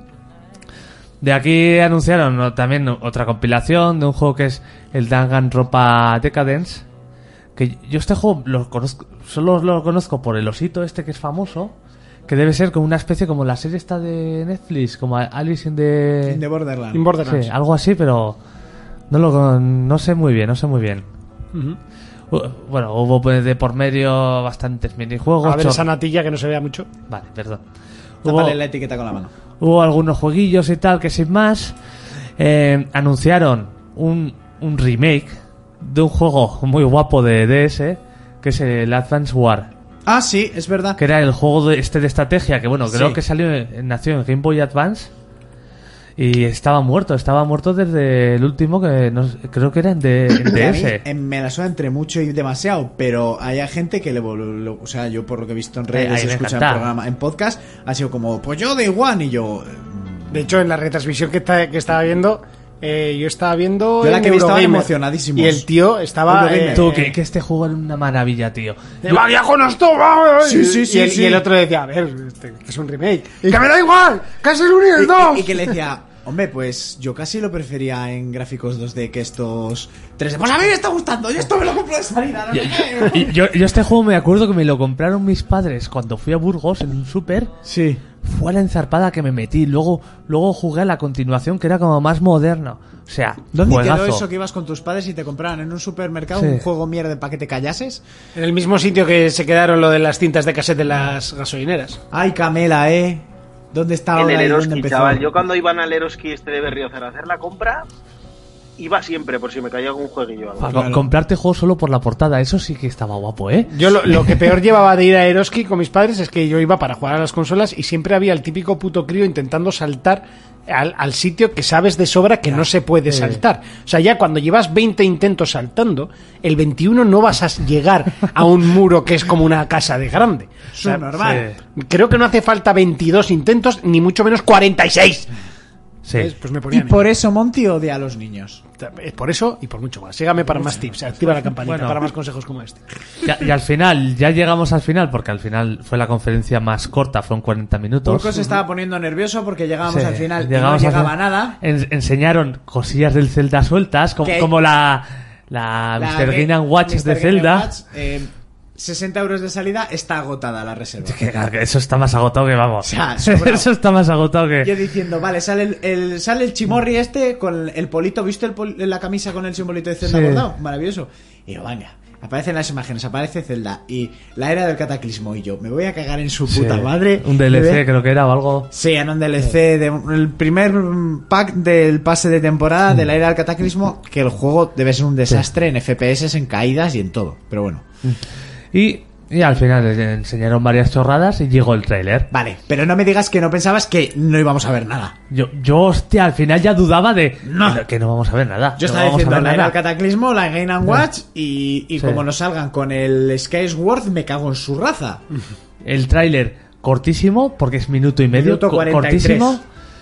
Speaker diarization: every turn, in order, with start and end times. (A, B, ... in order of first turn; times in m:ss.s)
0:01.2-0:06.8 A
0:07.6-0:11.7 A
0:12.3-0:16.4 A
0:16.2-0:17.0 B
0:16.9-0:17.5 C
0:17.2-0:18.4 A
0:19.1-0:21.0 A
0:21.5-0:21.8 C
0:22.3-0:25.8 A
0:25.4-0:26.9 C
0:27.1-0:27.6 A
0:28.2-0:28.6 A
0:28.2-0:29.3 B
0:29.6-0:31.8 A
0:32.4-0:39.7 A
0:40.0-0:41.0 B
0:41.0-0:45.1 A
0:42.9-0:43.2 B
0:46.2-0:51.0 A
0:50.4-1:00.6 B
0:55.9-0:56.9 A
1:00.3-1:07.1 C
1:04.0-1:05.6 B
1:06.2-1:07.0 B
1:06.7-1:09.2 A
1:09.0-1:15.7 C
1:10.4-1:11.4 B
1:15.0-1:23.4 B
1:22.5-1:27.5 A
1:27.6-1:28.0 B
1:28.2-1:34.2 A
1:33.5-1:38.0 B
1:36.3-1:36.6 A
1:38.3-1:42.0 C
1:42.1-1:45.3 B
1:44.2-1:47.9 D
1:48.8-1:50.8 D
1:50.6-1:53.7 A
1:50.7-1:51.0 B
1:53.7-2:11.0 C
2:03.1-2:03.4 A
2:10.7-2:11.5 B
2:11.2-2:11.6 A
2:11.8-2:15.3 C
2:16.0-2:16.3 A
2:16.1-2:17.0 C
2:16.7-2:18.6 B
2:18.8-2:22.8 C
2:20.5-2:21.0 B
2:21.6-2:22.0 A
2:23.2-2:28.4 A
2:28.0-2:31.6 B
2:29.9-2:37.7 A
2:34.2-2:34.5 B
2:36.0-2:41.2 B
2:41.0-2:44.7 A
2:42.8-2:43.7 B
2:44.6-2:57.8 B
2:50.0-2:50.5 A
2:56.5-2:58.7 A
2:58.7-3:07.8 B
3:08.7-3:12.3 A
3:12.3-3:15.2 B
3:15.3-3:19.8 A
3:17.4-3:17.8 B
3:18.8-3:25.2 B
3:25.8-3:29.6 A
3:28.3-3:29.6 B